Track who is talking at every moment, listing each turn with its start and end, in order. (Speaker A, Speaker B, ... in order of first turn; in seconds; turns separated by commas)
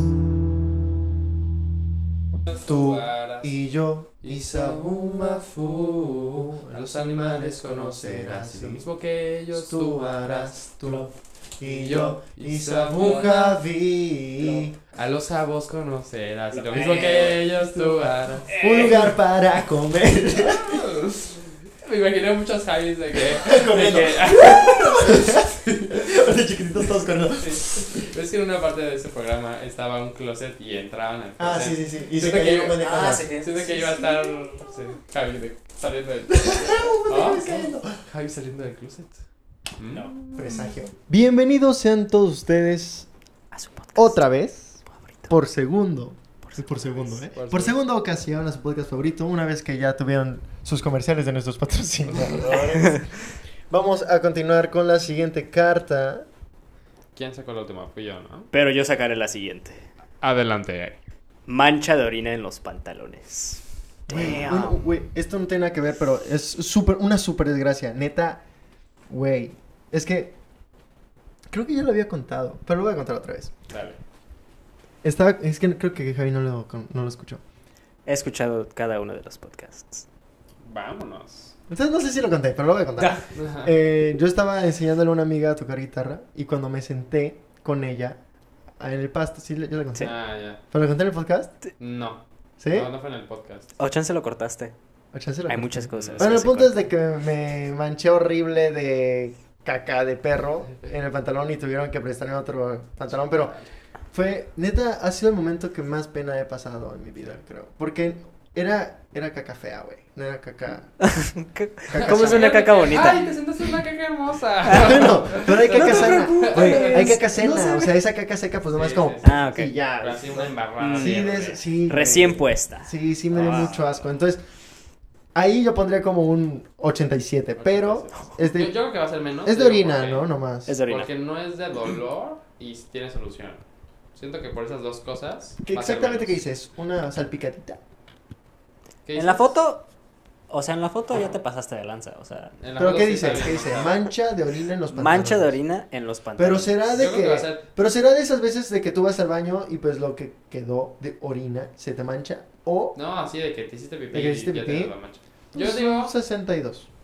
Speaker A: 2.5-3.5, Speaker B: 2.6-8.8, Speaker A: 4.2-11.1, Speaker B: 9.5-14.8, Speaker A: 11.6-13.6, Speaker A: 14.8-19.0, Speaker C: 16.7-17.3, Speaker B: 16.7-20.9, Speaker C: 18.5-18.8, Speaker A: 20.4-26.0, Speaker B: 23.2-28.1, Speaker A: 27.4-39.2, Speaker B: 31.4-34.3, Speaker C: 32.8-33.6, Speaker B: 36.3-38.0, Speaker A: 39.8-40.2, Speaker C: 39.9-40.3, Speaker B: 40.4-43.1, Speaker C: 43.5-44.2, Speaker B: 43.9-53.1, Speaker C: 44.9-45.3, Speaker C: 46.4-47.2, Speaker A: 47.4-47.8, Speaker C: 52.7-53.0, Speaker B: 53.7-56.3, Speaker A: 57.1-58.5, Speaker C: 58.5-59.9, Speaker A: 60.2-61.0, Speaker C: 61.5-64.8, Speaker B: 64.1-68.4, Speaker B: 69.1-70.3, Speaker B: 71.5-73.5, Speaker A: 73.7-74.0, Speaker B: 75.0-77.4, Speaker C: 78.0-80.0, Speaker A: 80.6-81.5, Speaker B: 81.7-88.2, Speaker A: 83.3-83.7, Speaker B: 88.8-90.2, Speaker A: 90.0-90.6, Speaker B: 90.7-91.5, Speaker A: 91.8-93.7, Speaker B: 92.6-92.9, Speaker C: 93.8-94.7, Speaker B: 95.1-103.5, Speaker C: 95.5-96.8, Speaker A: 95.9-96.3, Speaker A: 103.3-103.6, Speaker B: 104.1-111.0, Speaker C: 111.0-113.2, Speaker B: 111.9-113.1, Speaker A: 111.9-117.2, Speaker C: 114.7-115.1, Speaker B: 114.7-124.4, Speaker C: 115.6-117.9, Speaker A: 118.7-119.5, Speaker C: 119.2-119.7, Speaker A: 120.0-121.6, Speaker C: 120.8-123.7, Speaker A: 123.4-124.0, Speaker B: 125.3-128.8, Speaker A: 127.6-130.3, Speaker B: 129.4-130.7, Speaker C: 130.7-131.1, Speaker A: 130.9-133.6, Speaker A: 134.2-136.3, Speaker B: 135.6-137.8, Speaker A: 139.0-139.5, Speaker C: 139.1-139.9, Speaker C: 140.5-142.5, Speaker A: 142.6-144.0, Speaker B: 142.8-145.6, Speaker C: 144.9-146.8, Speaker B: 146.4-152.9, Speaker A: 146.9-147.6, Speaker A: 152.9-156.1, Speaker B: 154.1-154.9, Speaker B: 155.5-156.9